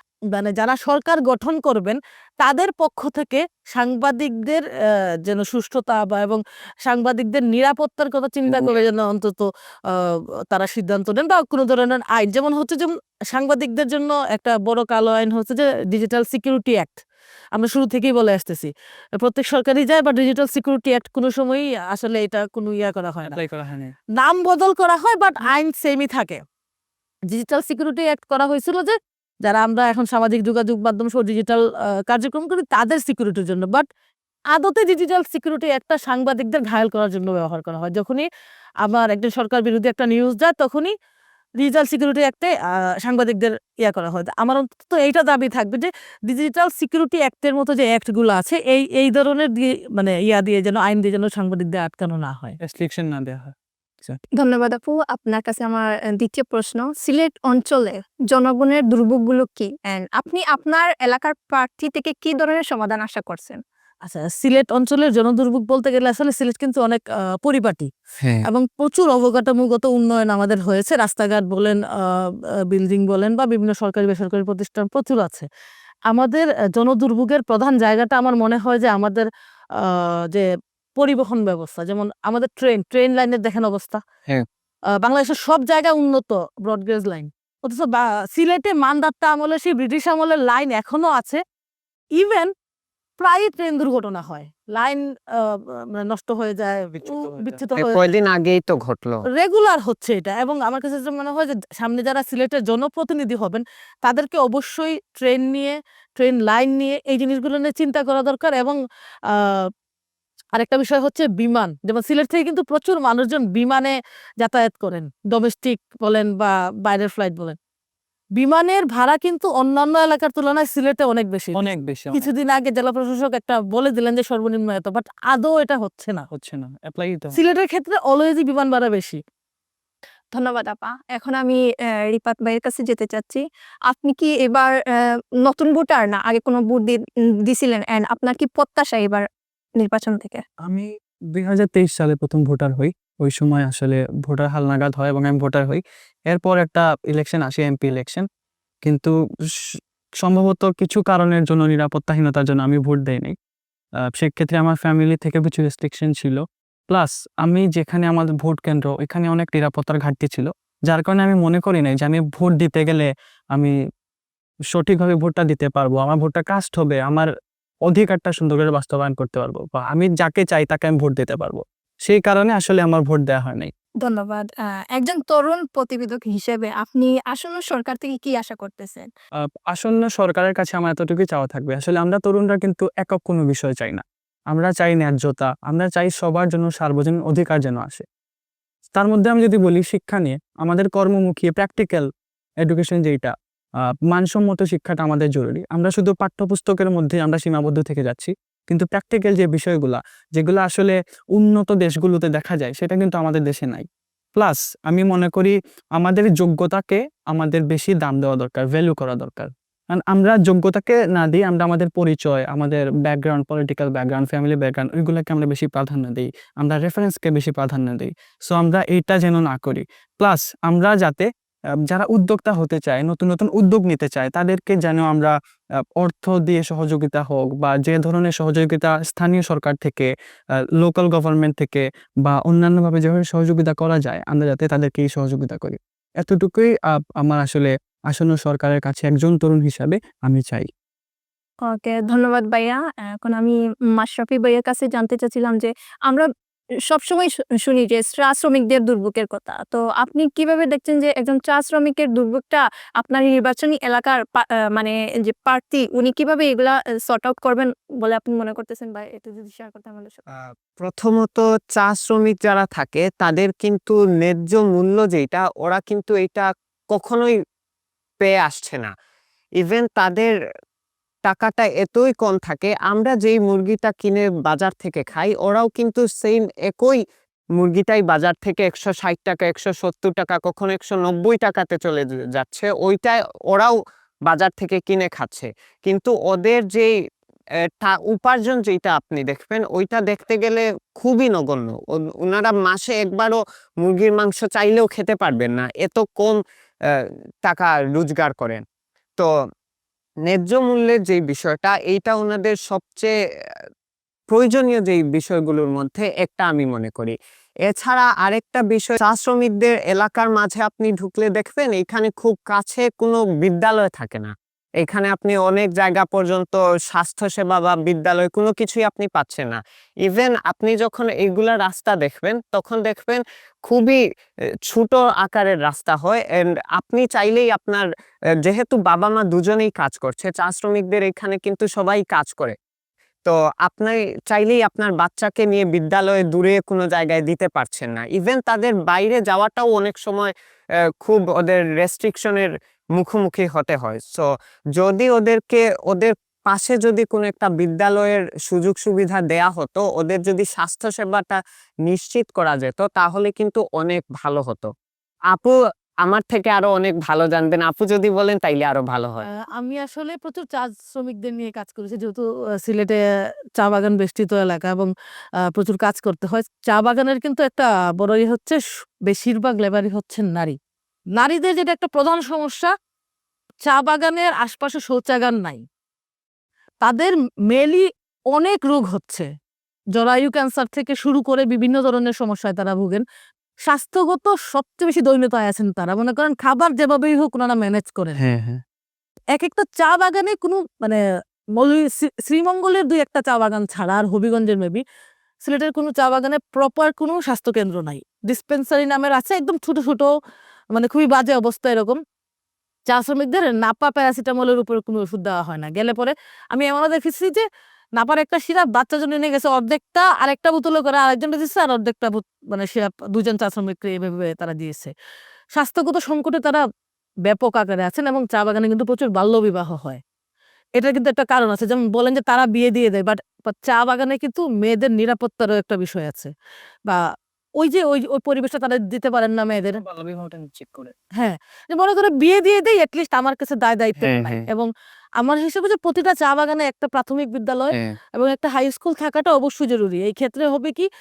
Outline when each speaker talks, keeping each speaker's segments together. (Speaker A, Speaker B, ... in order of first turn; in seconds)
Speaker A: 0.3-4.7, 5.2-17.0, 17.5-23.4, 24.2-26.4, 27.3-33.9, 34.5-38.3, 38.8-40.9, 41.6-52.6, 64.0-67.9, 68.4-75.5, 76.1-79.3, 79.8-84.0, 85.0-91.4, 92.2-92.5, 93.2-98.0, 99.3-108.8, 109.3-109.7, 110.5-117.5, 118.4-121.6, 122.1-126.2, 127.3-129.2, 359.5-363.0, 363.6-364.9, 365.5-370.6, 371.2-372.7, 373.6-375.6, 376.8-379.3, 379.9-383.0, 383.7-388.2, 389.3-391.0, 391.6-394.8, 395.4-400.1, 400.7-402.0, 402.9-407.4, 408.0-414.9, 415.6-416.6, 417.3-420.0, 420.8-426.3, 427.6-429.8, 431.2-434.7, 435.2-440.9
Speaker B: 8.5-8.8, 68.2-68.5, 97.8-99.2, 260.4-267.3, 268.2-268.9, 269.6-270.3, 271.2-277.0, 277.6-283.7, 284.3-286.9, 287.8-296.4, 297.4-298.6, 300.3-303.1, 304.3-307.1, 307.6-324.0, 324.7-327.9, 328.4-332.6, 333.2-340.3, 341.0-354.7, 355.3-359.2, 388.3-388.6, 434.0-434.5, 437.7-437.9
Speaker C: 23.2-23.9, 52.6-54.2, 96.9-97.6, 121.5-122.3, 126.3-127.4, 140.6-148.2, 148.8-149.1, 150.2-153.3, 154.2-163.7, 164.7-167.3, 167.9-173.7, 179.7-188.0, 188.9-192.1, 192.6-221.3, 221.9-225.3, 226.0-230.1, 230.8-240.7, 429.7-430.9
Speaker D: 54.4-63.6, 130.3-139.2, 139.8-140.4, 174.0-179.1, 241.7-246.3, 246.9-260.2